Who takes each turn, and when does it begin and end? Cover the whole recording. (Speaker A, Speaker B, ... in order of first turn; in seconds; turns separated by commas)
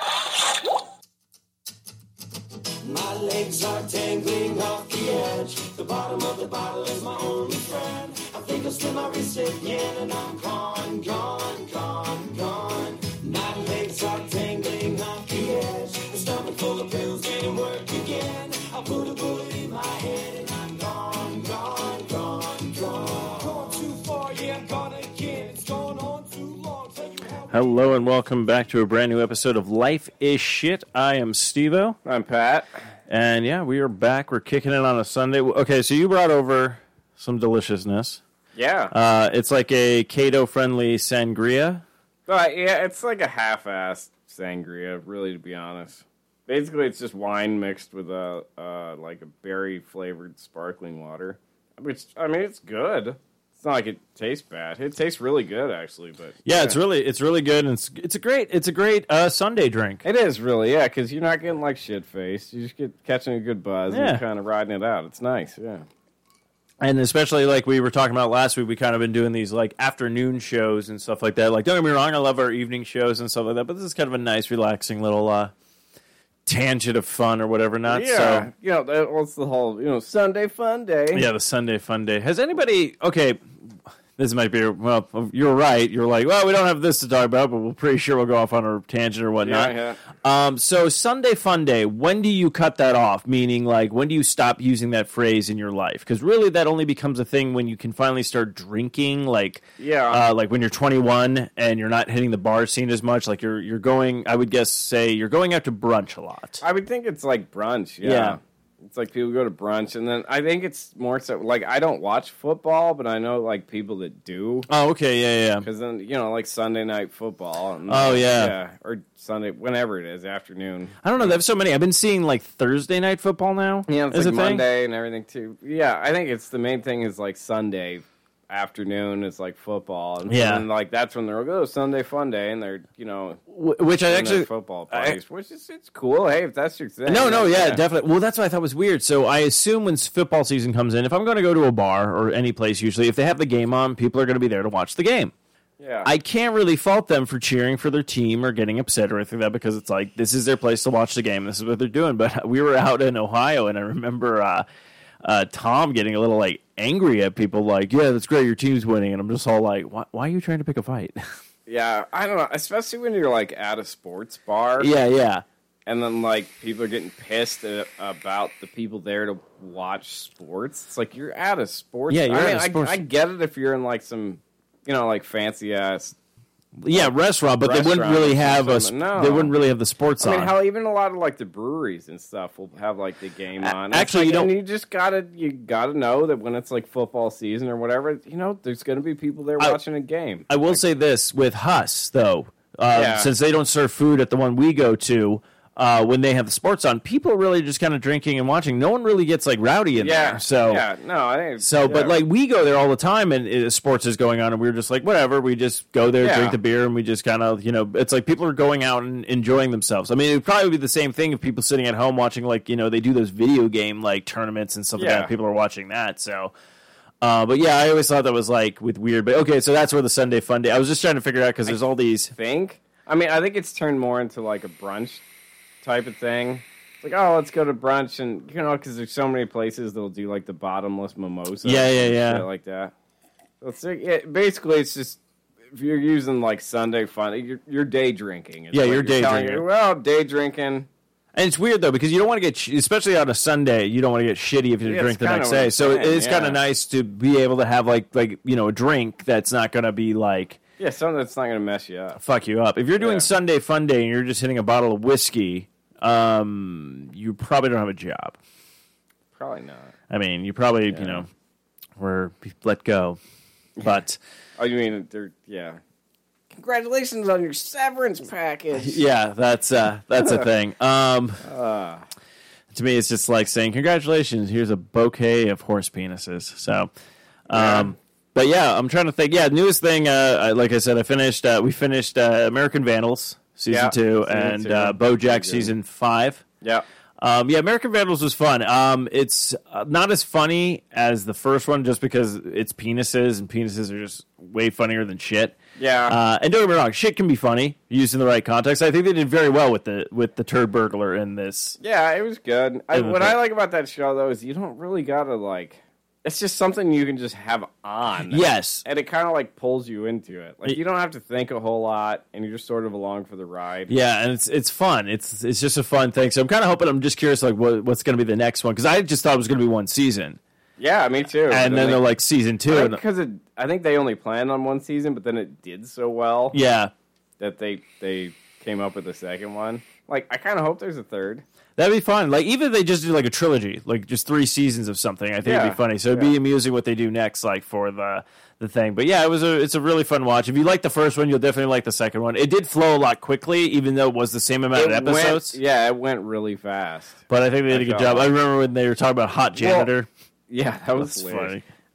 Speaker A: 2.8-27.8, Speaker B: 27.5-32.0, Speaker C: 32.0-32.7, Speaker B: 33.1-38.2, Speaker C: 38.5-38.9, Speaker B: 38.9-41.8, Speaker C: 42.3-56.8, Speaker B: 56.4-60.0, Speaker C: 60.0-65.8, Speaker B: 63.9-64.2, Speaker B: 66.8-75.5, Speaker B: 76.5-78.5, Speaker C: 77.9-81.2, Speaker B: 81.1-83.4, Speaker B: 84.2-106.6, Speaker C: 89.4-90.0, Speaker C: 99.8-100.3, Speaker C: 106.6-114.7, Speaker B: 108.0-108.4, Speaker B: 114.7-115.7, Speaker C: 115.6-121.4, Speaker B: 117.9-118.5, Speaker B: 121.0-124.6, Speaker C: 123.9-133.4, Speaker B: 130.3-130.6, Speaker B: 133.5-135.2, Speaker C: 134.1-137.8, Speaker B: 137.1-145.3, Speaker C: 145.8-146.1, Speaker B: 146.0-154.7, Speaker B: 155.2-161.2, Speaker C: 161.7-164.9, Speaker B: 164.8-165.4, Speaker C: 165.8-176.2, Speaker B: 172.1-173.0, Speaker B: 176.8-180.5, Speaker C: 176.9-179.5, Speaker C: 180.2-190.8, Speaker B: 183.6-184.5, Speaker B: 190.5-200.8, Speaker C: 192.9-193.3, Speaker C: 200.0-202.2, Speaker B: 201.6-216.5, Speaker C: 206.2-206.6, Speaker C: 215.0-215.3, Speaker B: 217.2-222.3, Speaker C: 222.3-225.2, Speaker C: 225.8-232.9, Speaker B: 231.6-232.4, Speaker C: 233.6-235.2, Speaker C: 235.7-240.9, Speaker B: 238.7-239.6, Speaker B: 241.3-250.6, Speaker C: 244.8-246.6, Speaker C: 250.8-252.2, Speaker B: 252.2-258.4, Speaker C: 253.0-253.3, Speaker C: 259.4-259.9, Speaker B: 260.1-261.3, Speaker C: 260.9-261.2, Speaker B: 262.0-263.2, Speaker B: 263.8-264.2, Speaker C: 264.6-265.8, Speaker C: 266.5-269.0, Speaker B: 268.8-271.4, Speaker C: 271.4-272.0, Speaker B: 272.7-276.9, Speaker B: 277.5-286.4, Speaker C: 277.5-277.9, Speaker C: 283.7-285.7, Speaker B: 287.2-295.6, Speaker C: 295.8-296.2, Speaker B: 296.1-301.8, Speaker C: 301.8-313.9, Speaker B: 302.9-303.4, Speaker B: 308.3-308.8, Speaker B: 313.9-320.4, Speaker C: 320.8-322.1, Speaker B: 321.5-323.0, Speaker C: 322.7-326.6, Speaker B: 326.5-326.9, Speaker C: 327.4-331.4, Speaker B: 331.8-345.6, Speaker C: 335.4-336.3, Speaker C: 344.7-348.3, Speaker B: 347.3-350.1, Speaker C: 349.6-349.9, Speaker C: 350.5-351.6, Speaker B: 350.9-351.6